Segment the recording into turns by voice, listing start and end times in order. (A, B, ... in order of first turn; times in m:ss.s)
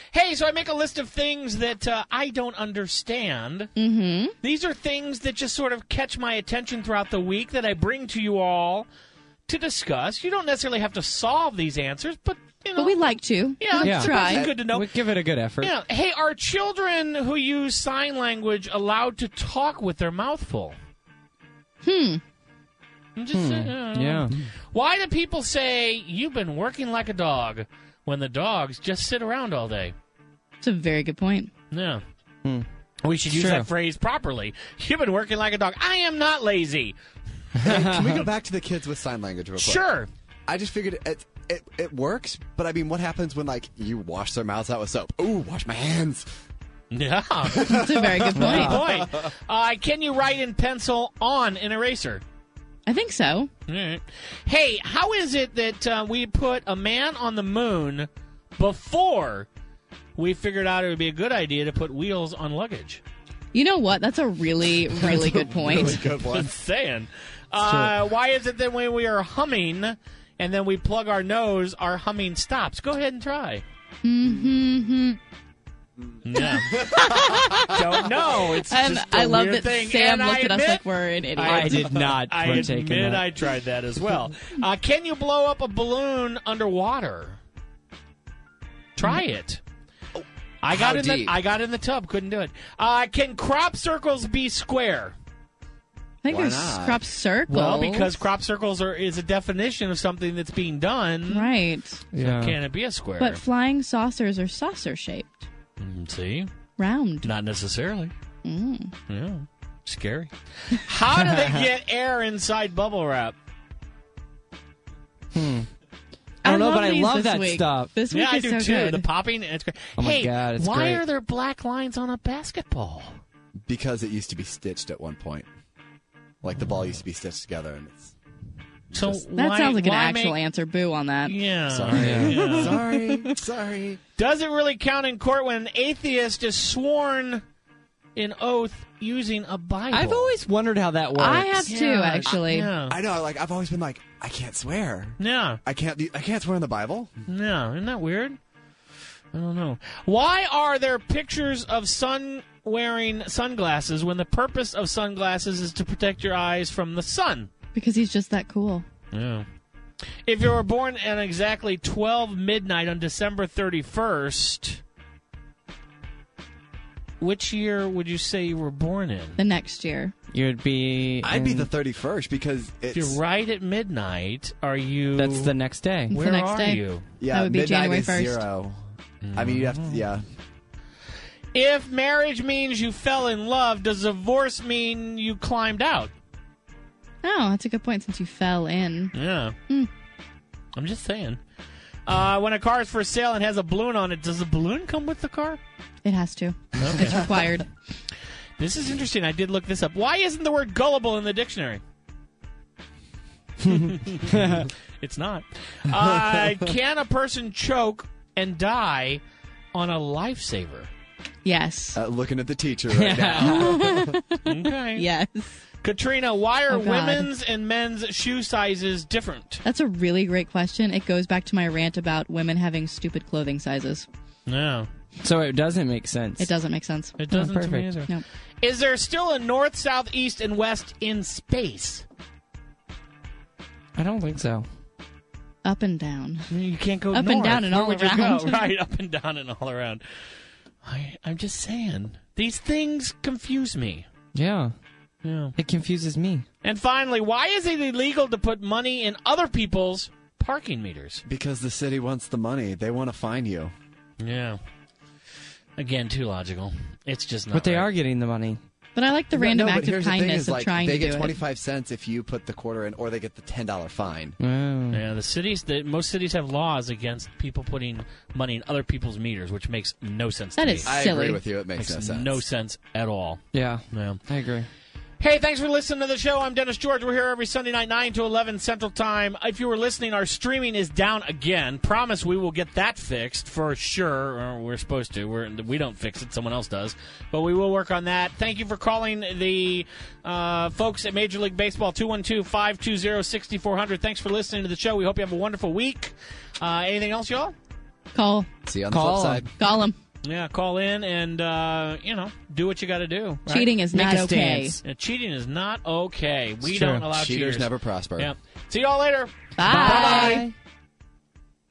0:00.1-0:03.7 A
0:03.8-0:04.3 B
0:04.4-0:08.9 A
0:09.5-0:13.0 A
0:12.8-0:14.5 B
0:13.6-0:15.0 A
0:13.8-0:15.7 C
0:14.2-0:14.6 D
0:15.6-0:20.8 A
0:21.8-0:22.2 B
0:23.2-0:29.9 A
0:23.3-0:24.3 C
0:30.6-0:31.5 B
0:31.7-0:32.0 A
0:33.0-0:36.9 A
0:33.3-0:33.7 C
0:37.6-0:38.2 C
0:37.6-0:39.8 D
0:39.6-0:40.1 A
0:40.5-0:46.3 D
0:46.9-0:47.7 A
0:47.5-0:49.3 D
0:47.6-0:48.8 B
0:48.3-0:52.2 A
0:52.8-0:53.5 B
0:53.7-0:59.5 A
1:00.2-1:03.0 A
1:03.5-1:06.0 B
1:05.1-1:06.5 D
1:06.3-1:13.6 A
1:14.0-1:15.2 B
1:16.2-1:16.8 A
1:16.4-1:22.0 B
1:16.4-1:17.7 D
1:17.6-1:20.8 A
1:21.4-1:27.4 A
1:21.4-1:23.2 C
1:29.0-1:29.6 A
1:30.1-1:31.3 D
1:30.6-1:35.2 A
1:36.2-1:38.1 B
1:36.2-1:37.0 D
1:37.5-1:41.5 A
1:41.3-1:42.0 B
1:42.1-1:42.6 C
1:42.2-1:43.4 A
1:43.2-1:45.5 B
1:45.8-1:46.5 A
1:46.8-1:47.3 B
1:47.2-1:48.1 A
1:48.4-1:48.9 B
1:49.1-1:53.3 A
1:55.3-1:55.7 C
1:56.4-1:59.0 B
1:56.4-1:58.0 C
1:58.1-2:03.2 A
2:00.0-2:01.0 C
2:03.7-2:05.4 D
2:06.4-2:08.1 D
2:08.9-2:09.2 D
2:08.9-2:10.4 A
2:09.4-2:11.3 B
2:11.2-2:12.8 A
2:11.7-2:14.0 D
2:11.9-2:12.7 C
2:12.8-2:13.2 B
2:14.2-2:17.4 A
2:18.2-2:20.3 A
2:19.9-2:21.7 C
2:21.2-2:22.7 B
2:21.7-2:23.0 A
2:22.9-2:27.1 D
2:25.2-2:25.6 A
2:27.3-2:28.4 A
2:29.3-2:37.5 A
2:37.7-2:38.8 B
2:39.1-2:39.4 A
2:40.2-2:44.8 A
2:47.2-2:49.4 A
2:49.4-2:50.1 B
2:50.3-2:51.7 C
2:51.2-2:53.2 D
2:52.9-2:55.5 A
2:55.2-2:56.1 C
2:56.1-2:57.0 A
2:56.1-2:58.4 B
2:57.2-3:00.2 D
2:59.2-3:00.0 A
3:01.5-3:06.1 A
3:07.2-3:09.1 B
3:09.1-3:09.6 A
3:10.8-3:11.4 A
3:12.0-3:15.6 A
3:16.0-3:17.7 B
3:16.8-3:17.3 A
3:18.6-3:21.8 A
3:23.6-3:24.7 C
3:23.7-3:29.2 A
3:29.7-3:30.9 A
3:31.4-3:32.0 B
3:32.0-3:34.2 D
3:32.9-3:33.9 C
3:33.4-3:35.5 B
3:34.4-3:35.1 A
3:35.8-3:39.6 A
3:36.7-3:37.3 B
3:39.6-3:44.0 B
3:44.5-3:44.9 A
3:45.2-3:46.5 C
3:46.4-3:47.2 B
3:47.2-3:52.0 A
3:47.3-3:47.9 C
3:54.0-3:54.6 C
3:55.6-3:56.4 B
3:56.5-4:00.0 A
3:57.1-3:58.6 B
4:00.8-4:04.0 A
4:04.3-4:04.7 C
4:05.2-4:05.5 A
4:05.6-4:06.4 C
4:06.6-4:11.2 A
4:11.2-4:13.7 D
4:14.2-4:14.6 A
4:15.8-4:17.9 A
4:17.5-4:18.6 C
4:19.0-4:21.4 B
4:19.3-4:24.4 D
4:24.4-4:25.0 C
4:24.9-4:30.9 A
4:30.6-4:31.4 B
4:30.8-4:32.4 D
4:31.8-4:34.2 A
4:33.5-4:34.7 C
4:35.2-4:57.5 A
4:58.1-4:58.5 B
4:58.6-4:59.5 D
4:58.9-4:59.4 C
4:59.6-5:00.0 B
5:00.2-5:03.7 A
5:03.5-5:04.8 B
5:03.9-5:04.8 C
5:04.8-5:10.5 A
5:06.7-5:07.0 C
5:07.0-5:08.3 D
5:09.6-5:10.4 B
5:09.7-5:10.5 C